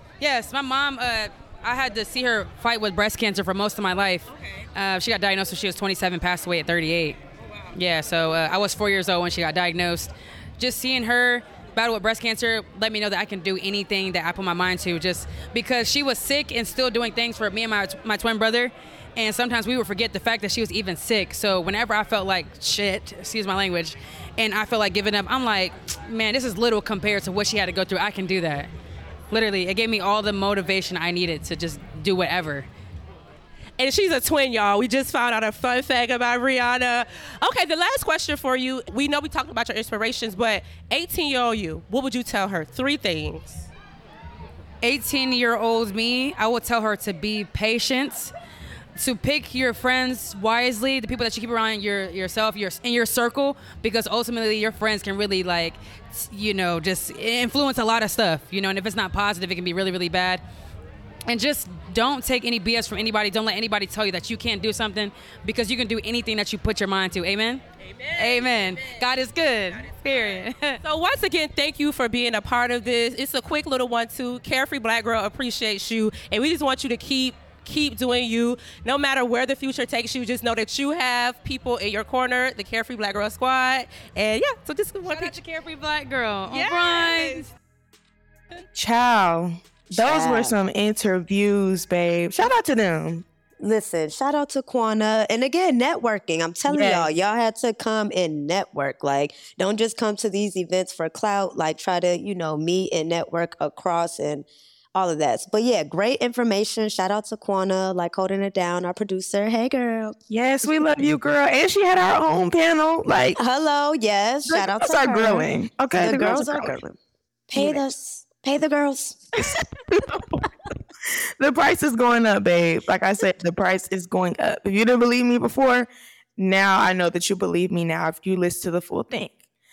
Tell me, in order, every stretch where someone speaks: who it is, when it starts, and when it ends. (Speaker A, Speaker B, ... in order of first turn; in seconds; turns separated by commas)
Speaker A: 0.2-7.2, Speaker B: 4.3-4.7, Speaker A: 7.7-28.7, Speaker A: 29.3-32.7, Speaker B: 33.8-43.7, Speaker A: 44.8-48.3, Speaker A: 49.0-60.4, Speaker A: 61.3-67.6, Speaker B: 67.8-69.1, Speaker A: 68.2-70.8, Speaker B: 69.7-85.4, Speaker A: 85.1-87.5, Speaker B: 86.5-87.5, Speaker C: 88.8-93.2, Speaker D: 90.0-90.5, Speaker D: 93.6-110.9, Speaker C: 96.7-97.1, Speaker C: 110.3-113.4, Speaker D: 113.4-117.0, Speaker C: 114.5-116.8, Speaker D: 117.5-119.2, Speaker C: 117.6-117.9, Speaker C: 119.4-120.5, Speaker C: 121.4-129.3